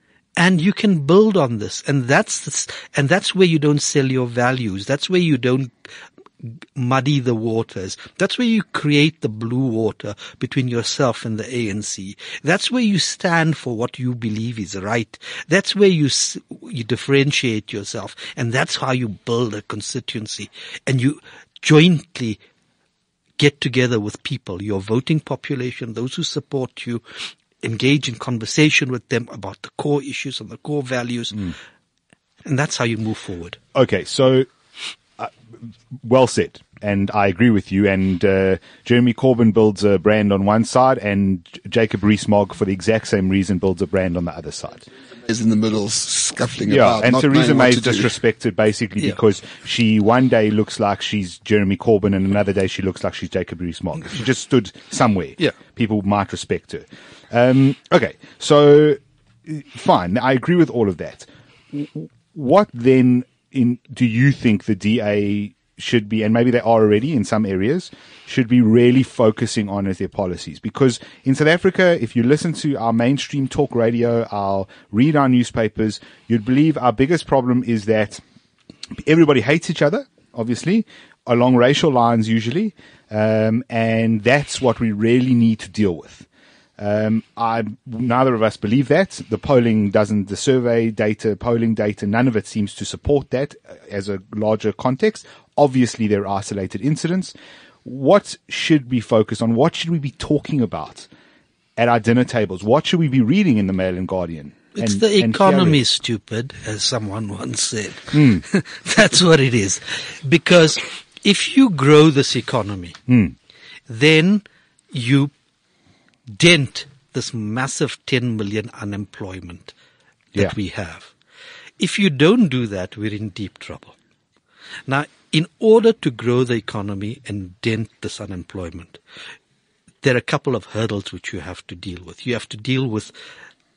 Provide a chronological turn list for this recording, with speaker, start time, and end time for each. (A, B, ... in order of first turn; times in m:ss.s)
0:00.4-0:22.4 A
0:23.4-0:31.5 A
0:32.4-0:33.6 A
0:33.7-0:34.5 B
0:36.0-0:44.9 B
0:45.2-0:48.1 C
0:46.7-1:18.2 B
1:19.0-1:26.2 B
1:26.8-1:37.3 B
1:37.8-1:41.1 B
1:41.8-1:45.8 B
1:44.8-1:53.0 A
1:48.1-1:48.4 B
1:53.1-1:53.4 B
1:53.9-1:55.3 A
1:56.3-1:59.7 A
2:00.4-2:01.1 A
2:01.8-2:04.0 A
2:04.9-2:09.0 A
2:10.0-2:13.1 A